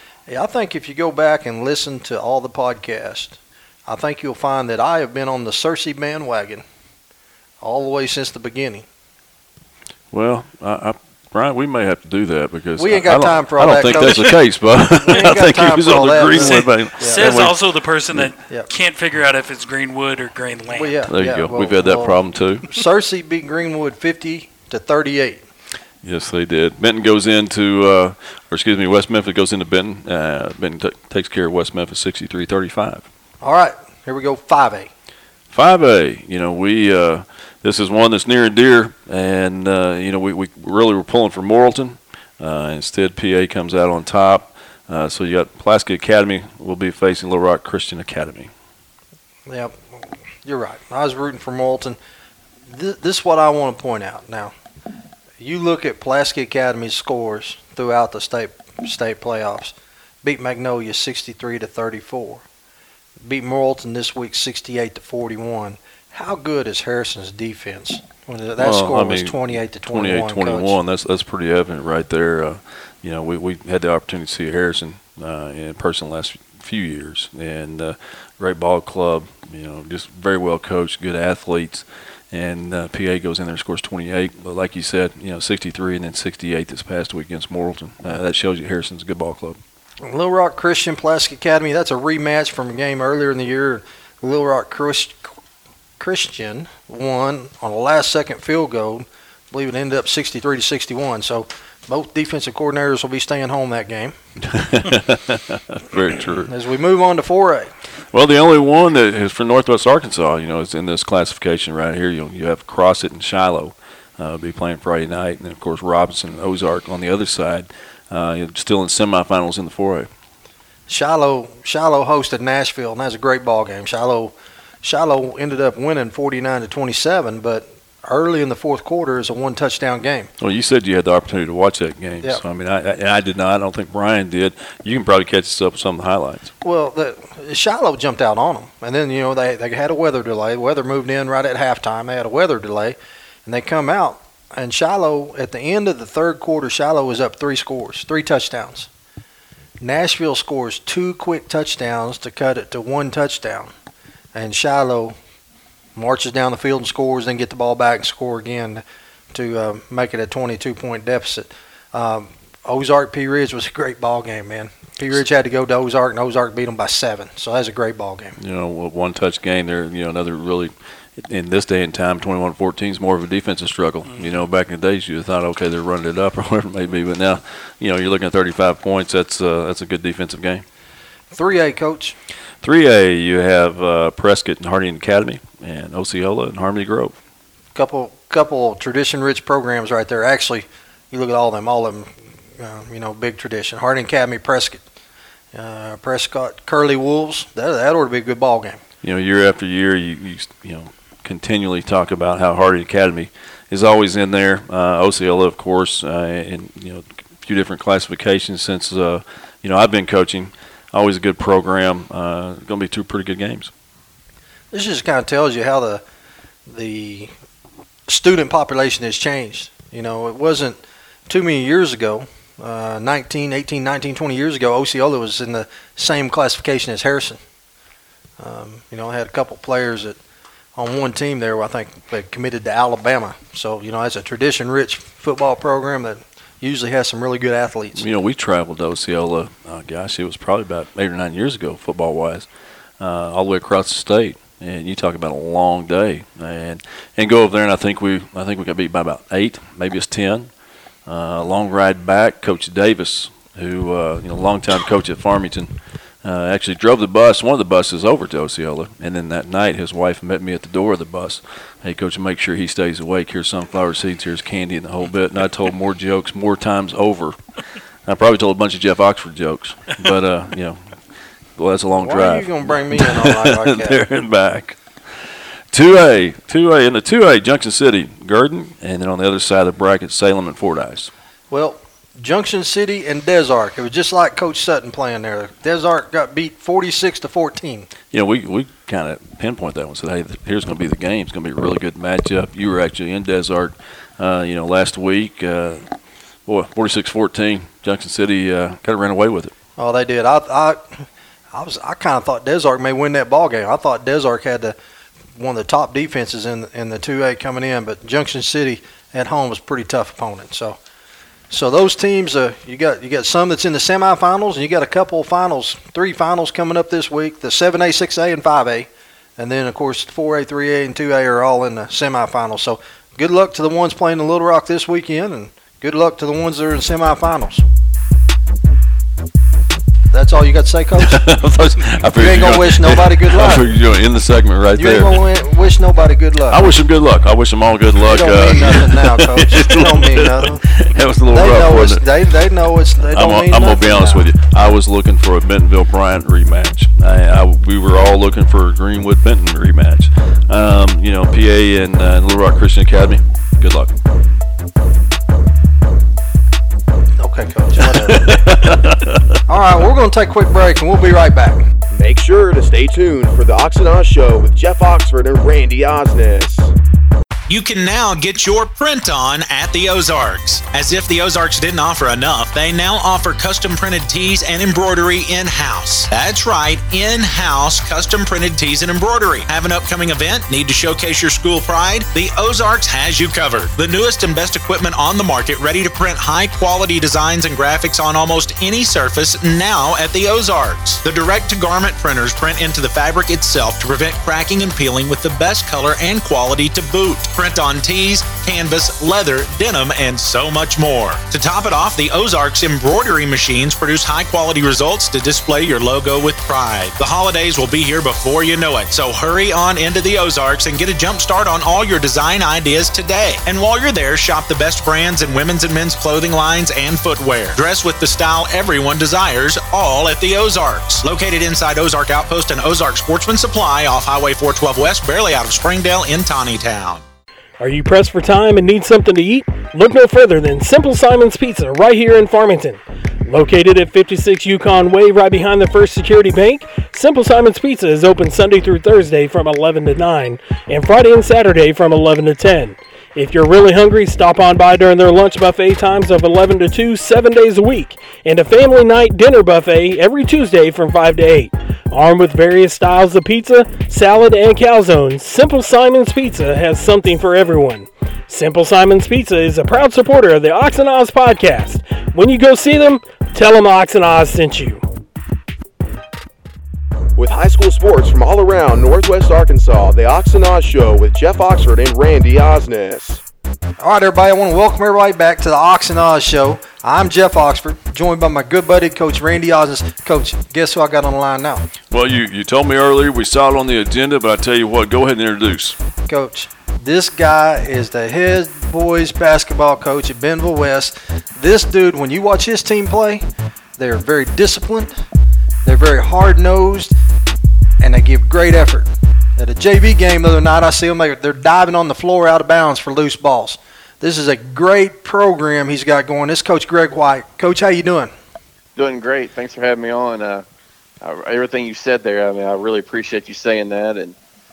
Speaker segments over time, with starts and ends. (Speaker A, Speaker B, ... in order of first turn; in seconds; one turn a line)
Speaker A: 0.3-6.6
Speaker A: 7.6-8.8
Speaker B: 10.1-17.6
Speaker A: 12.8-14.4
Speaker A: 15.1-17.2
Speaker C: 16.3-21.0
Speaker A: 20.7-25.4
Speaker B: 21.1-22.6
Speaker B: 26.0-33.0
Speaker A: 33.4-34.9
Speaker B: 35.5-48.5
Speaker A: 49.5-52.0
Speaker A: 52.7-54.5
Speaker A: 55.4-62.4
Speaker A: 63.2-70.8
Speaker B: 68.6-89.6
Speaker A: 90.0-95.3
Speaker A: 96.0-104.1
Speaker B: 104.5-106.5
Speaker A: 106.5-107.7
Speaker B: 108.1-120.1
Speaker A: 120.9-130.3
Speaker B: 130.4-136.5
Speaker A: 136.6-148.9
Speaker A: 149.8-153.7
Speaker A: 154.3-155.1
Speaker A: 155.9-158.8
Speaker A: 159.3-168.3
Speaker B: 168.4-180.6
Speaker A: 181.3-182.2
Speaker B: 182.6-187.2
Speaker A: 187.7-194.8
Speaker A: 195.5-198.8
Speaker B: 199.0-213.7
Speaker A: 214.7-216.0
Speaker A: 216.7-217.3
Speaker A: 218.1-227.4
Speaker A: 228.4-230.2
Speaker A: 230.8-238.0
Speaker B: 237.9-242.5
Speaker B: 243.0-250.5
Speaker B: 251.1-267.4
Speaker B: 268.0-271.0
Speaker B: 271.6-274.8
Speaker A: 272.0-274.0
Speaker B: 275.7-281.1
Speaker A: 281.5-287.9
Speaker B: 288.1-295.9
Speaker B: 296.4-299.5
Speaker A: 299.8-304.8
Speaker A: 305.4-310.8
Speaker A: 311.5-327.6
Speaker A: 330.1-331.2
Speaker B: 331.0-335.2
Speaker A: 332.2-333.7
Speaker A: 334.7-336.7
Speaker B: 336.5-342.0
Speaker A: 338.0-340.6
Speaker A: 341.3-344.3
Speaker B: 343.1-354.0
Speaker A: 357.2-358.5
Speaker B: 357.8-359.3
Speaker A: 359.5-361.7
Speaker D: 361.9-366.7
Speaker E: 367.5-427.0
Speaker F: 427.6-464.8
Speaker D: 467.1-473.2
Speaker A: 473.8-481.6
Speaker B: 481.9-485.8
Speaker A: 486.1-493.2
Speaker A: 493.8-494.9
Speaker A: 495.6-496.9
Speaker A: 497.8-508.1
Speaker G: 508.8-510.4
Speaker G: 511.0-514.1